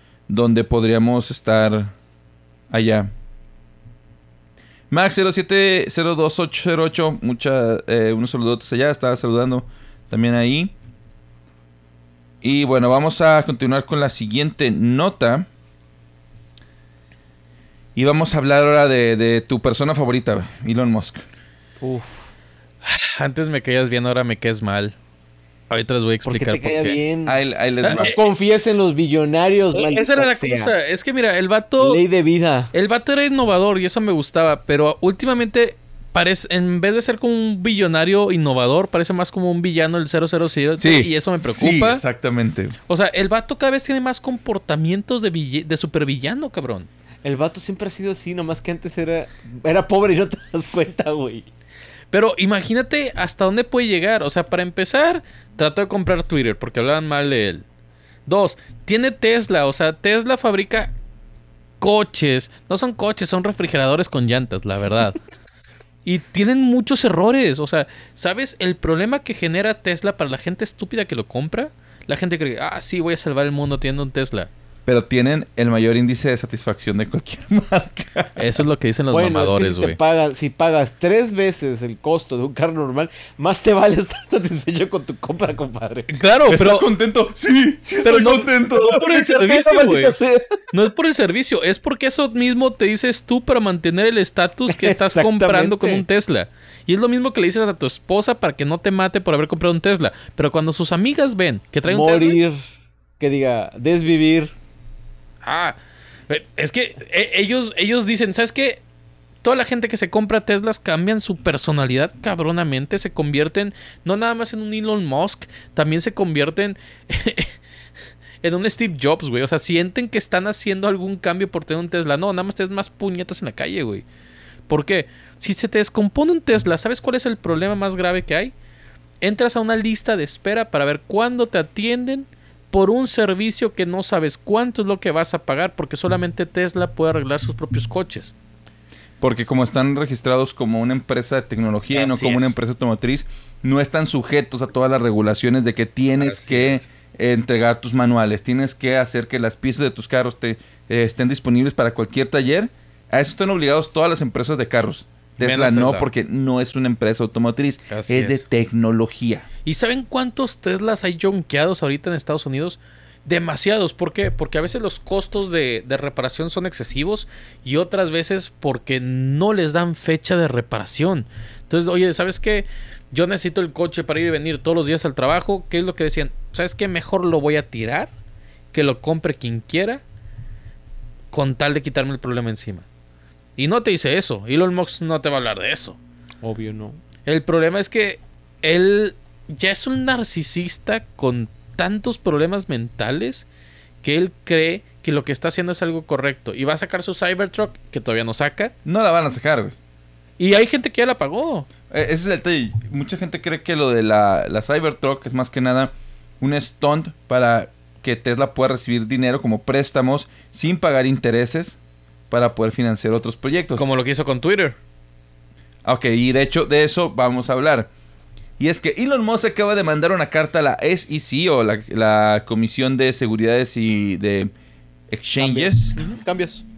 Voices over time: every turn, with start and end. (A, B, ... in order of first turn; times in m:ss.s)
0:00.3-0:01.9 A
0:02.7-0:03.1 A
0:04.9-0:10.7 A
0:12.4-0:15.5 A
0:18.0-0:21.2 A
0:21.8-0:22.3 B
0:22.8-0:24.9 C
0:25.7-0:27.0 C
0:26.2-0:30.7 B
0:27.2-0:28.1 A
0:27.8-0:28.2 C
0:29.7-0:32.0 C
0:31.8-0:32.7 B
0:32.7-0:42.0 C
0:40.8-0:42.7 A
0:42.9-0:46.9 C
0:47.2-0:51.5 B
0:52.1-0:57.6 C
0:58.3-1:00.9 C
1:01.8-1:05.2 C
1:06.0-1:14.5 C
1:14.8-1:18.5 A
1:18.4-1:20.0 C
1:19.1-1:26.2 B
1:26.1-1:26.9 C
1:26.5-1:29.4 A
1:28.0-1:30.2 C
1:28.8-1:30.6 B
1:30.7-1:42.4 C
1:34.7-1:36.0 B
1:41.8-1:42.6 B
1:43.2-1:44.5 B
1:45.4-1:45.8 C
1:46.3-1:48.8 C
1:49.4-1:57.5 C
1:58.4-2:04.0 C
2:04.7-2:08.5 C
2:09.2-2:18.3 C
2:19.2-2:39.5 A
2:21.9-2:22.5 C
2:26.2-2:26.8 C
2:35.4-2:36.1 C
2:37.9-2:38.4 C
2:39.6-2:58.1 C
2:58.7-3:00.0 C
3:01.3-3:02.8 C
3:03.6-3:06.0 C
3:06.4-3:07.0 B
3:07.2-3:13.4 C
3:14.0-3:18.7 C
3:18.8-3:19.7 A
3:20.4-3:21.7 C
3:21.9-3:31.8 A
3:32.3-3:33.8 A
3:33.8-3:34.8 C
3:35.8-3:37.9 A
3:38.6-3:44.5 A
3:45.1-3:46.0 A
3:45.4-3:46.6 B